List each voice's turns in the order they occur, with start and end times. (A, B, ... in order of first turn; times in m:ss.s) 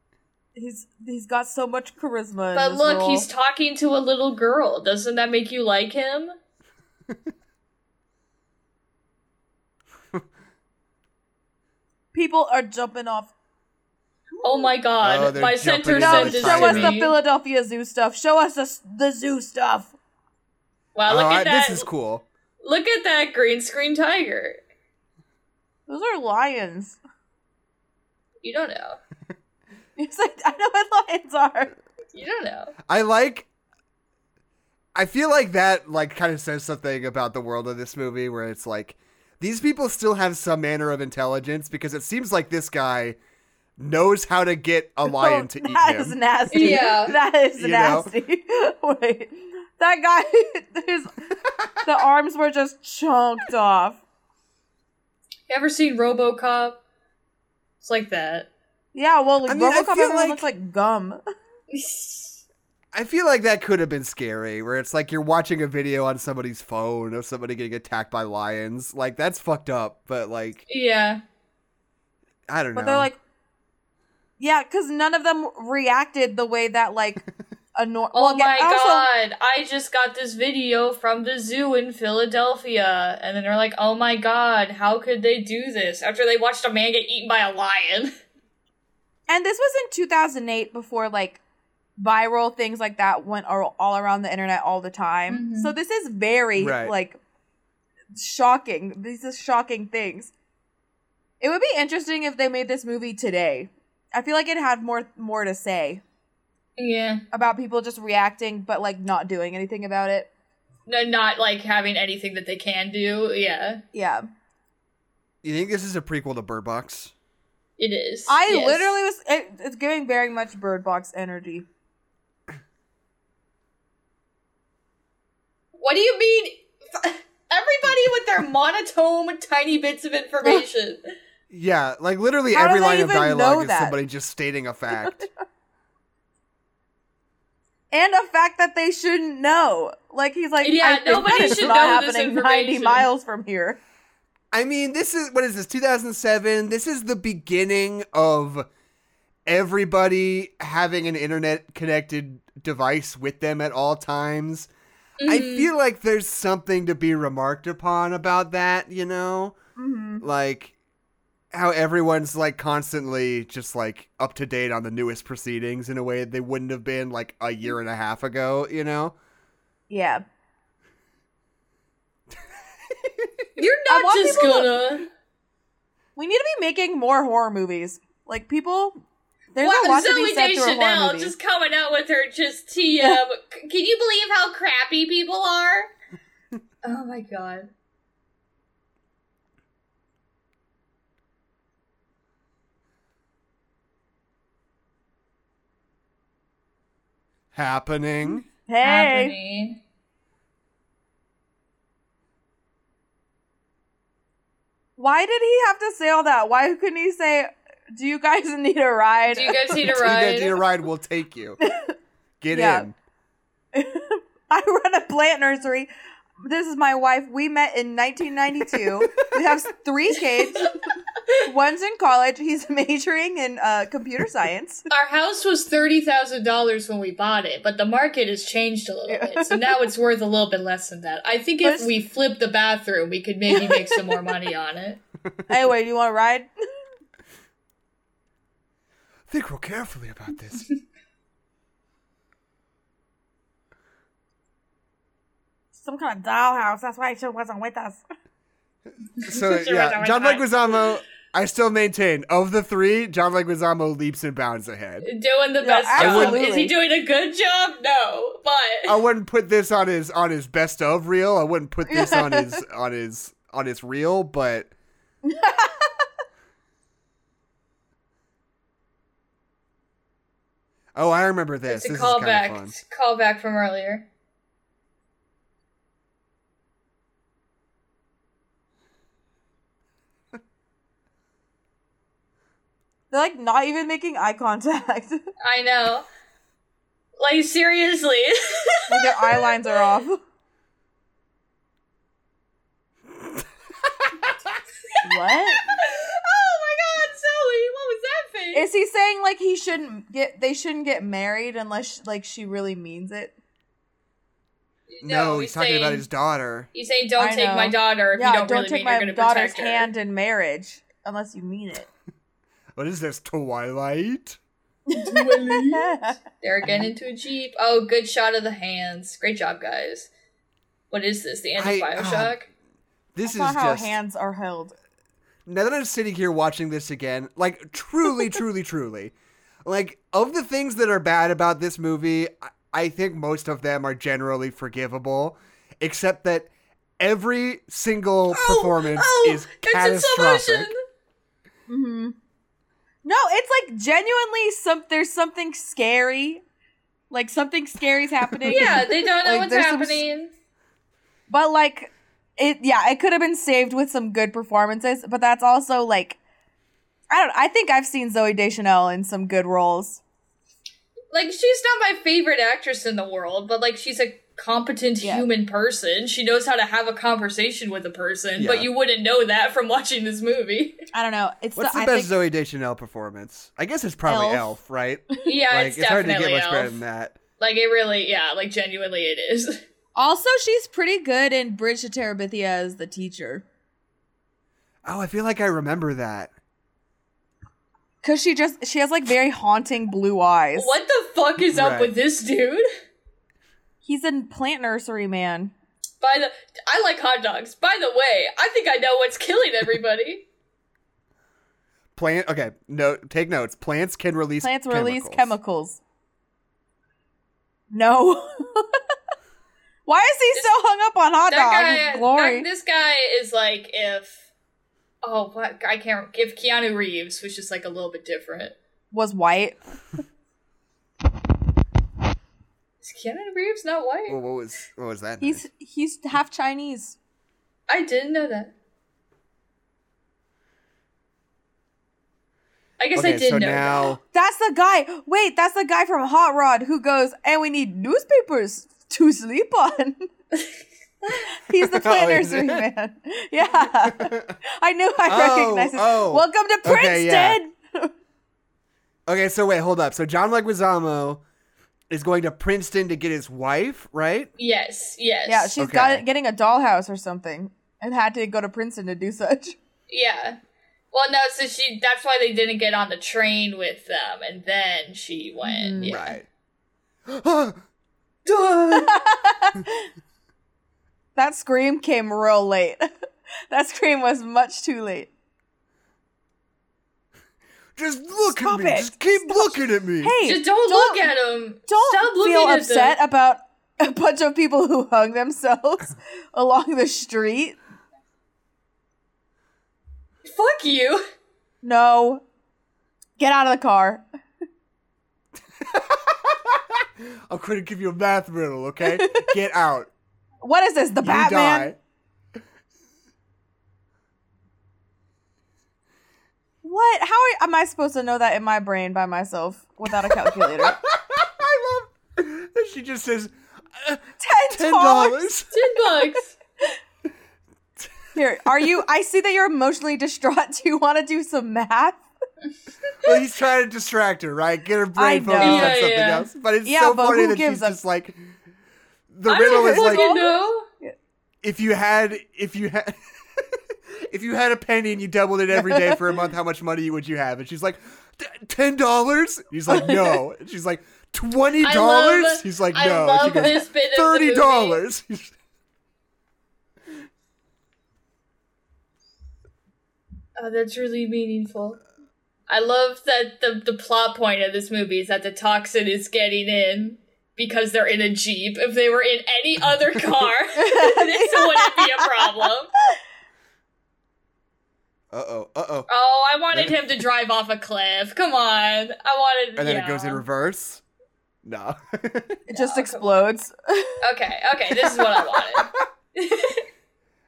0:00.5-0:03.3 A
0:02.5-0:06.3 B
0:12.1-0:13.3 A
0:14.3-0:14.7 A
0:14.4-0:17.2 B
0:15.0-0:17.0 C
0:16.0-0:19.9 A
0:21.0-0:21.8 B
0:21.1-0:22.2 C
0:22.6-0:24.6 B
0:25.9-0:27.0 A
0:28.4-0:29.0 B
0:30.0-0:31.7 A
0:32.1-0:32.7 B
0:32.9-0:33.5 C
0:34.9-0:43.2 C
0:43.8-0:48.1 C
0:45.0-0:51.3 A
0:46.5-0:47.1 B
0:51.8-0:54.0 A
0:55.5-0:56.8 B
0:57.8-0:58.5 B
0:58.9-1:01.2 A
0:59.4-1:00.4 C
1:01.7-1:02.4 B
1:02.9-1:10.6 C
1:10.7-1:11.2 B
1:12.5-1:13.1 C
1:12.7-1:13.2 A
1:14.4-1:17.2 A
1:17.8-1:19.1 A
1:18.1-1:28.1 B
1:29.3-1:31.4 A
1:32.0-1:37.2 A
1:35.3-1:35.7 B
1:36.6-1:36.9 C
1:38.1-1:40.3 A
1:41.4-1:46.0 A
1:46.8-1:47.2 B
1:47.3-1:50.3 A
1:50.9-1:53.8 B
1:53.9-1:54.2 A
1:55.4-1:57.1 C
1:57.8-1:59.0 B
1:58.3-2:01.6 A
2:05.8-2:11.0 B
2:11.5-2:15.3 C
2:12.5-2:14.0 A
2:17.9-2:23.8 A
2:20.6-2:23.1 B
2:24.5-2:28.6 C
2:29.4-2:34.7 C
2:35.2-2:35.7 B
2:35.2-2:39.6 C
2:39.8-2:40.2 A
2:40.2-2:40.7 C
2:41.5-2:49.1 C
2:49.9-2:50.2 A
2:52.3-2:53.5 C
2:53.6-2:55.0 B
2:53.9-2:54.7 A
2:56.2-2:59.0 A
2:59.5-3:01.3 A
2:59.6-3:05.9 B
3:06.8-3:07.7 B
3:17.5-3:18.4 C
3:18.7-3:19.3 A
3:18.8-3:19.8 B
3:25.0-3:29.9 A
3:29.3-3:30.6 B
3:29.8-3:31.6 C
3:31.6-3:31.9 A
3:32.4-3:32.9 C
3:32.5-3:32.9 A
3:33.7-3:35.9 A
3:36.4-3:40.8 A
3:41.4-3:44.9 A
3:44.9-3:55.0 B
3:49.1-3:49.8 A
3:51.6-3:51.9 A
3:53.5-3:54.3 A
3:55.5-3:56.5 A
3:59.3-4:00.7 C
4:05.8-4:08.0 A
4:09.2-4:15.1 C
4:09.2-4:10.9 B
4:15.0-4:19.0 B
4:15.6-4:16.7 A
4:16.0-4:16.4 C
4:18.8-4:24.7 C
4:21.9-4:22.6 A
4:25.2-4:26.0 A
4:30.9-4:32.7 C
4:31.7-4:34.0 B
4:43.1-4:45.2 A
4:45.4-4:46.1 B
4:47.2-4:49.5 B
4:48.9-4:50.2 A
4:54.0-4:54.6 C
4:55.0-4:55.7 A
4:55.1-4:58.6 B
4:58.5-5:03.3 A
5:04.9-5:06.0 B
5:05.0-5:06.7 C
5:06.7-5:09.9 B
5:07.2-5:11.9 A
5:12.7-5:14.4 C
5:14.9-5:16.2 A
5:15.0-5:20.1 B
5:16.6-5:16.9 C
5:20.9-5:22.5 B
5:21.6-5:22.4 C
5:23.1-5:24.0 C
5:23.2-5:24.7 A
5:25.4-5:29.1 C
5:29.6-5:40.7 C
5:38.3-5:40.7 B
5:41.7-5:42.1 A
5:43.0-5:46.4 A
5:47.1-5:50.0 A
5:48.4-5:48.8 C
5:48.5-5:50.3 B
5:51.3-5:56.2 A
5:57.1-6:00.0 A
6:01.1-6:10.8 B
6:05.0-6:05.3 A
6:08.4-6:08.7 C
6:10.9-6:12.1 A
6:11.6-6:17.2 C
6:14.0-6:14.5 A
6:15.2-6:16.8 B
6:17.4-6:19.6 B
6:19.9-6:23.4 A
6:24.8-6:26.3 C
6:28.0-6:30.7 A
6:30.6-6:32.6 B
6:31.5-6:31.9 C
6:33.8-6:35.5 A
6:36.0-6:40.2 B
6:42.0-6:45.4 C
6:44.4-6:45.8 A
6:47.7-6:48.8 A
6:49.8-6:52.5 A
6:51.3-6:54.2 B
6:55.0-6:58.6 B
6:58.9-6:59.6 A
7:02.8-7:04.2 B
7:04.1-7:05.4 C
7:05.2-7:07.0 A
7:07.7-7:08.5 B
7:12.8-7:13.9 B
7:12.9-7:14.0 C
7:14.1-7:20.1 A
7:21.3-7:27.9 A
7:21.5-7:22.6 C
7:23.8-7:24.3 C
7:25.1-7:27.4 C
7:29.1-7:31.2 C
7:31.9-7:34.3 C
7:34.4-7:35.5 B
7:35.2-7:39.6 A
7:35.6-7:36.0 C
7:39.9-7:40.4 B
7:40.9-7:46.2 B
7:45.4-7:46.0 A
7:45.8-7:46.2 C
7:47.0-7:47.6 C
7:48.2-7:49.0 B
7:48.7-7:49.9 A
7:51.2-7:52.9 A
7:53.5-7:55.1 A
7:57.8-8:00.2 C
7:58.2-8:01.1 A
8:00.2-8:03.0 B
8:01.7-8:07.6 A
8:10.2-8:11.0 B
8:11.6-8:12.2 A
8:13.2-8:14.0 A
8:15.6-8:19.9 C
8:18.8-8:19.3 A
8:20.4-8:21.7 A
8:21.0-8:21.8 C
8:26.6-8:30.8 A
8:30.0-8:35.5 C
8:34.2-8:35.5 A
8:35.5-8:36.3 B
8:38.1-8:42.0 A
8:43.0-8:48.3 C
8:45.0-8:45.8 A
8:45.4-8:46.3 B
8:46.6-8:47.8 A
8:49.1-8:50.1 C
8:49.3-8:50.6 B
8:49.4-8:50.9 A
8:51.4-9:05.3 C
8:55.5-8:56.0 A
8:59.7-9:00.2 A
9:01.6-9:04.8 B
9:10.4-9:11.8 B
9:12.5-9:22.7 B
9:20.6-9:22.5 A
9:25.1-9:25.9 C
9:25.9-9:30.2 B
9:26.5-9:26.8 C
9:29.6-9:30.8 C
9:31.4-9:32.4 C
9:32.5-9:34.0 A
9:32.5-9:33.0 B
9:34.0-9:36.6 B
9:35.6-9:35.8 C